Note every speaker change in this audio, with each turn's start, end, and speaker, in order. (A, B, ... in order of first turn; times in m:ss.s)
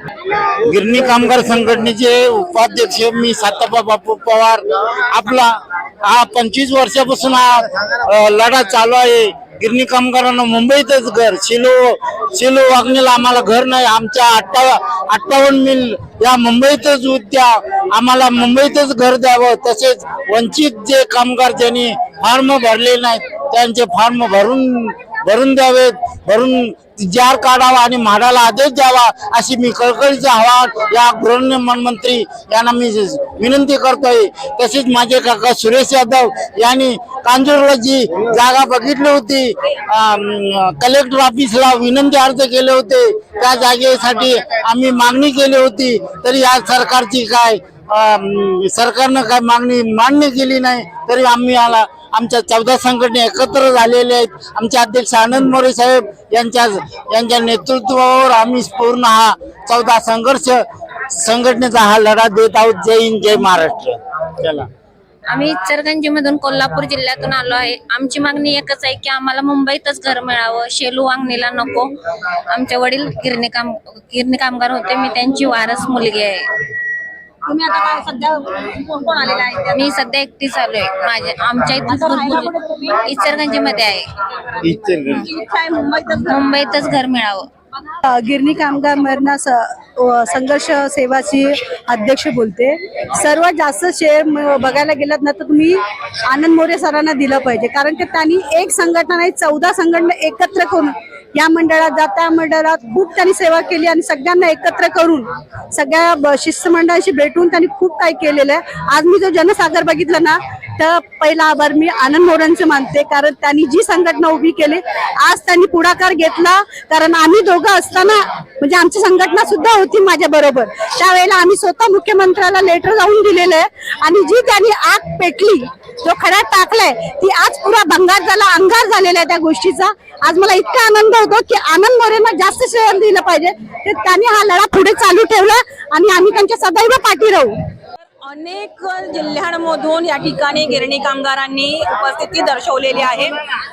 0:00.6-1:04.7 A
1:05.3-1:11.9 B
1:12.5-1:16.5 B
1:17.5-1:19.9 C
1:19.7-1:24.1 B
1:21.9-1:23.6 C
1:24.3-1:26.6 C
1:24.6-1:25.1 A
1:25.0-1:25.3 B
1:26.2-1:27.5 B
1:28.1-2:17.6 D
2:18.2-2:23.3 C